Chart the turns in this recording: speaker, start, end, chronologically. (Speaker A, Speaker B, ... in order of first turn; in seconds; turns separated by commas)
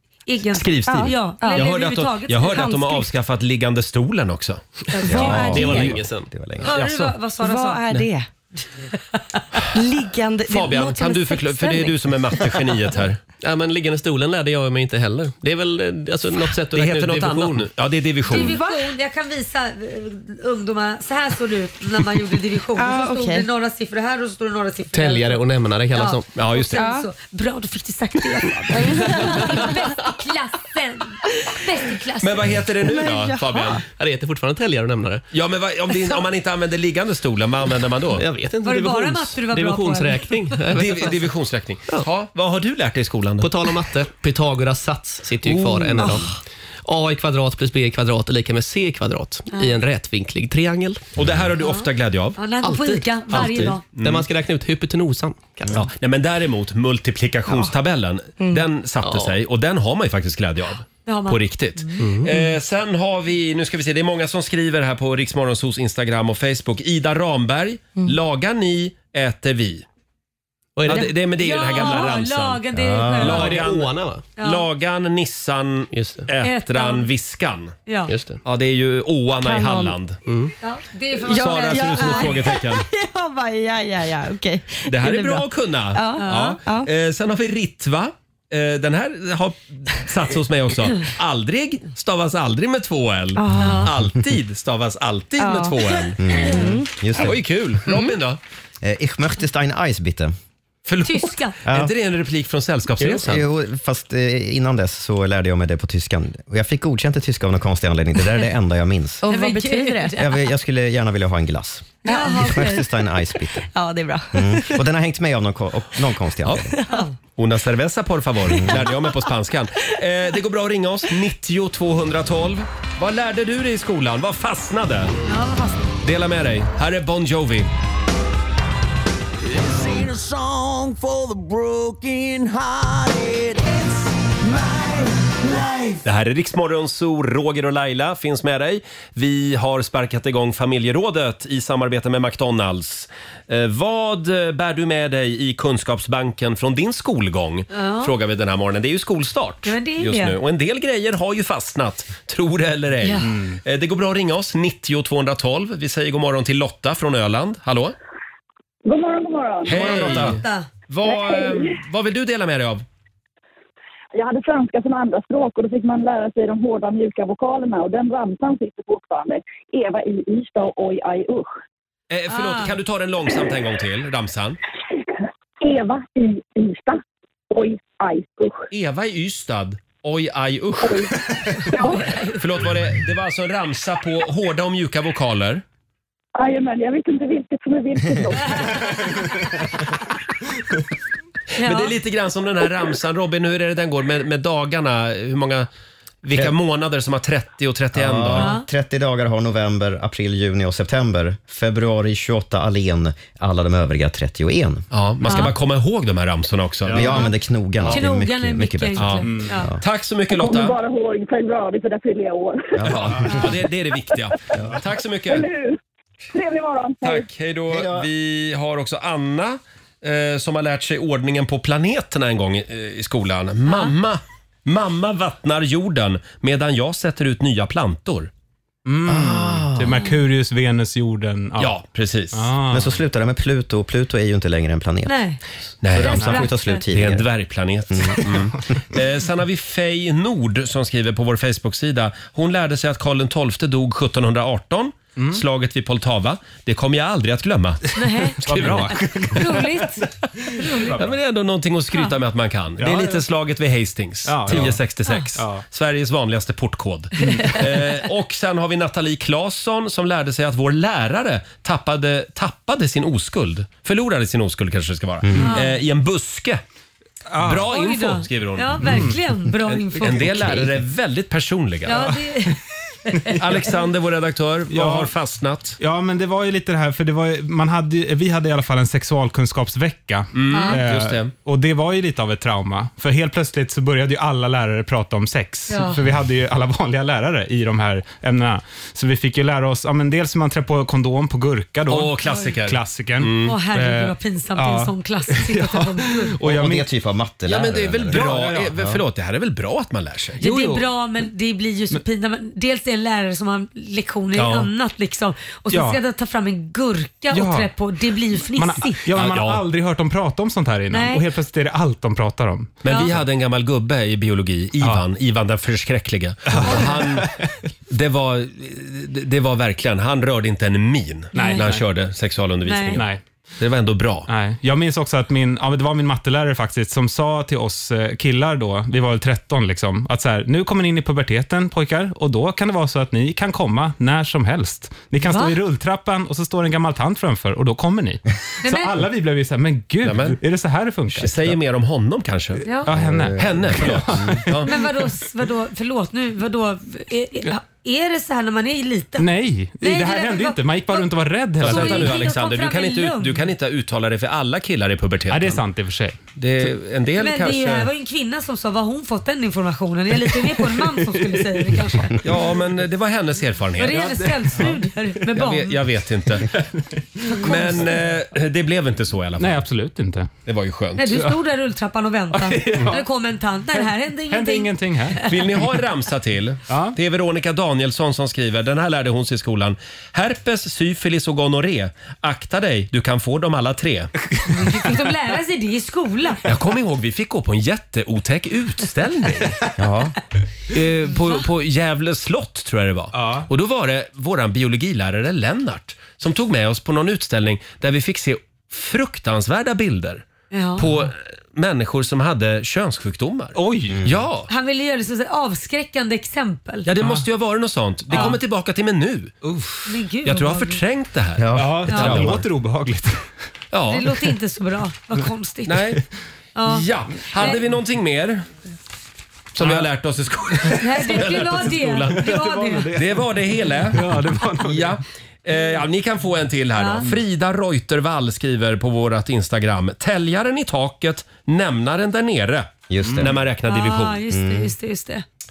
Speaker A: 0.3-2.7, Speaker B: 0.5-6.1, Speaker C: 0.9-1.7, Speaker C: 2.4-3.1, Speaker A: 4.9-5.9, Speaker C: 5.1-5.8, Speaker D: 5.1-6.7, Speaker E: 5.4-6.3, Speaker B: 6.6-7.1, Speaker A: 6.6-7.8, Speaker C: 7.4-8.3, Speaker A: 8.9-9.4, Speaker C: 9.7-12.6, Speaker B: 10.5-13.2, Speaker E: 13.4-17.7, Speaker B: 16.7-18.6, Speaker A: 18.3-32.6, Speaker C: 18.3-18.9, Speaker C: 22.8-23.5, Speaker E: 24.9-26.6, Speaker B: 26.4-26.8, Speaker C: 26.7-27.1, Speaker C: 28.7-29.6, Speaker B: 32.2-33.8, Speaker C: 32.8-33.8, Speaker E: 33.9-35.3, Speaker B: 35.3-38.2, Speaker E: 38.1-41.2, Speaker A: 38.6-40.5, Speaker B: 40.7-43.5, Speaker E: 43.4-46.3, Speaker B: 45.5-46.2, Speaker E: 46.9-51.1, Speaker A: 49.5-49.8, Speaker B: 51.2-52.4, Speaker A: 51.6-53.8, Speaker E: 52.6-55.9, Speaker B: 53.3-54.3, Speaker B: 55.7-69.8, Speaker E: 59.0-59.3, Speaker A: 61.1-62.0, Speaker E: 62.0-62.3, Speaker E: 70.8-71.2, Speaker B: 70.9-72.7, Speaker A: 71.4-73.6, Speaker D: 72.8-73.2, Speaker E: 73.0-74.2, Speaker B: 73.2-77.8, Speaker A: 74.4-74.7, Speaker E: 75.9-76.3, Speaker A: 76.4-77.1, Speaker A: 77.9-78.1, Speaker E: 78.1-78.4, Speaker B: 78.4-80.2, Speaker C: 79.3-80.0, Speaker E: 80.3-80.5, Speaker A: 80.6-82.5, Speaker C: 81.2-86.9, Speaker B: 81.3-82.9, Speaker B: 84.9-96.2, Speaker A: 86.2-86.6, Speaker C: 93.4-93.9, Speaker A: 93.6-93.9, Speaker C: 95.4-96.9, Speaker D: 96.2-97.4, Speaker B: 97.2-98.4, Speaker C: 97.9-98.1, Speaker D: 98.8-100.3, Speaker B: 100.9-103.5, Speaker A: 101.0-101.5, Speaker D: 101.7-101.9, Speaker D: 103.0-109.2, Speaker C: 109.2-110.2, Speaker A: 109.3-110.3, Speaker D: 110.2-113.7, Speaker C: 112.1-112.7, Speaker A: 112.1-112.9, Speaker C: 113.7-114.8, Speaker D: 114.3-116.8, Speaker C: 116.5-117.0, Speaker A: 116.9-117.2, Speaker B: 117.4-125.2, Speaker C: 118.5-119.1, Speaker D: 118.6-118.9, Speaker A: 125.3-125.9, Speaker B: 126.0-127.7, Speaker F: 129.5-136.0, Speaker B: 136.0-158.0, Speaker A: 147.7-148.1, Speaker A: 149.7-150.4, Speaker A: 153.0-153.3, Speaker G: 158.9-160.1, Speaker B: 159.7-162.8, Speaker A: 159.8-160.7, Speaker D: 160.0-160.3, Speaker G: 161.1-161.8, Speaker G: 164.1-171.5, Speaker B: 172.1-174.6, Speaker A: 172.3-172.8, Speaker G: 175.6-178.7, Speaker B: 178.7-181.2, Speaker G: 180.8-181.1, Speaker G: 181.7-182.2, Speaker A: 181.7-182.4, Speaker B: 182.2-185.6, Speaker G: 186.4-189.1, Speaker A: 191.6-191.9, Speaker B: 191.6-195.7, Speaker B: 196.2-198.5, Speaker D: 197.9-204.9, Speaker A: 198.4-198.7, Speaker B: 204.9-207.2, Speaker A: 205.3-205.5, Speaker H: 206.9-207.2, Speaker D: 206.9-209.8, Speaker A: 207.9-209.7, Speaker B: 209.0-209.3, Speaker B: 209.8-210.8, Speaker G: 210.3-212.8, Speaker D: 212.8-213.5, Speaker B: 212.8-215.5, Speaker G: 215.3-215.8, Speaker G: 216.3-217.3, Speaker B: 217.0-228.3, Speaker D: 217.7-218.1, Speaker H: 228.9-231.8, Speaker D: 229.1-229.6, Speaker B: 229.3-229.7, Speaker B: 231.6-232.5, Speaker H: 232.3-232.9, Speaker D: 232.7-235.2, Speaker A: 235.1-235.4, Speaker B: 235.8-249.0, Speaker D: 235.9-237.3, Speaker A: 236.0-236.8, Speaker D: 237.9-238.2, Speaker H: 245.2-245.4, Speaker A: 247.9-251.0, Speaker H: 248.4-250.0, Speaker H: 250.6-251.2, Speaker B: 250.9-266.6, Speaker H: 252.8-253.2, Speaker H: 254.2-254.8, Speaker H: 255.4-255.7, Speaker H: 257.2-257.6, Speaker A: 257.2-257.6, Speaker A: 265.4-265.8, Speaker H: 267.3-267.7, Speaker B: 267.4-269.1, Speaker A: 267.7-270.2, Speaker H: 268.8-269.2, Speaker B: 269.7-272.1, Speaker H: 270.1-270.7, Speaker A: 271.9-273.5, Speaker H: 273.2-273.6, Speaker B: 273.4-275.8, Speaker H: 274.7-275.1, Speaker H: 275.8-296.9, Speaker B: 280.3-281.3, Speaker A: 280.5-280.8, Speaker A: 285.7-286.0, Speaker B: 291.9-293.5, Speaker A: 293.4-296.4, Speaker D: 296.4-298.6, Speaker B: 297.5-300.4, Speaker H: 298.1-298.9, Speaker H: 300.4-300.9, Speaker A: 300.4-309.0, Speaker B: 304.4-304.7, Speaker H: 305.7-306.0, Speaker H: 307.3-307.7, Speaker H: 308.5-312.8, Speaker B: 309.2-309.6, Speaker A: 310.9-311.3, Speaker B: 312.8-317.3, Speaker A: 312.9-313.1, Speaker H: 316.5-317.5, Speaker A: 316.6-317.0, Speaker B: 317.9-323.1, Speaker A: 321.3-321.7, Speaker H: 321.4-321.9, Speaker A: 322.6-323.1, Speaker H: 322.9-323.2, Speaker B: 323.6-324.3, Speaker H: 324.3-341.6, Speaker A: 335.3-335.6, Speaker A: 338.6-339.0, Speaker B: 340.0-340.4, Speaker B: 341.1-342.6, Speaker H: 342.7-344.8, Speaker D: 342.9-344.4, Speaker B: 343.4-344.7, Speaker A: 344.6-349.3, Speaker H: 349.2-352.2, Speaker A: 349.8-351.1, Speaker A: 351.6-353.4, Speaker B: 351.6-355.6, Speaker H: 355.3-356.2, Speaker B: 356.4-357.9, Speaker A: 357.2-362.2, Speaker B: 362.2-364.1, Speaker A: 363.8-365.8, Speaker H: 363.8-364.8, Speaker B: 365.3-366.5, Speaker H: 366.5-367.7, Speaker A: 367.3-367.8, Speaker B: 367.4-369.6, Speaker H: 369.4-370.3, Speaker B: 370.5-371.2, Speaker A: 371.0-375.3, Speaker H: 372.3-373.1, Speaker H: 373.8-375.4, Speaker B: 375.3-384.1, Speaker H: 376.7-377.0, Speaker A: 384.5-386.4, Speaker B: 386.4-389.6, Speaker D: 389.8-390.1, Speaker B: 390.7-400.3, Speaker H: 393.1-393.5, Speaker A: 400.5-400.9, Speaker B: 400.8-404.5, Speaker H: 403.6-404.1, Speaker D: 403.9-404.2, Speaker A: 404.5-406.9, Speaker B: 406.9-409.4, Speaker H: 408.1-408.4, Speaker A: 408.1-408.4, Speaker H: 409.4-409.9, Speaker A: 409.9-410.8, Speaker B: 410.2-412.4, Speaker D: 411.4-412.4, Speaker H: 411.6-413.2, Speaker B: 413.7-414.2, Speaker A: 413.9-415.9, Speaker B: 415.7-416.0, Speaker A: 416.6-416.8, Speaker B: 416.7-418.5, Speaker B: 419.6-422.3, Speaker H: 419.6-419.9, Speaker A: 420.8-422.9, Speaker H: 422.1-425.0, Speaker B: 422.9-434.2, Speaker A: 426.8-427.1, Speaker D: 432.9-433.4, Speaker H: 433.0-433.3, Speaker A: 433.7-435.2, Speaker D: 434.3-434.7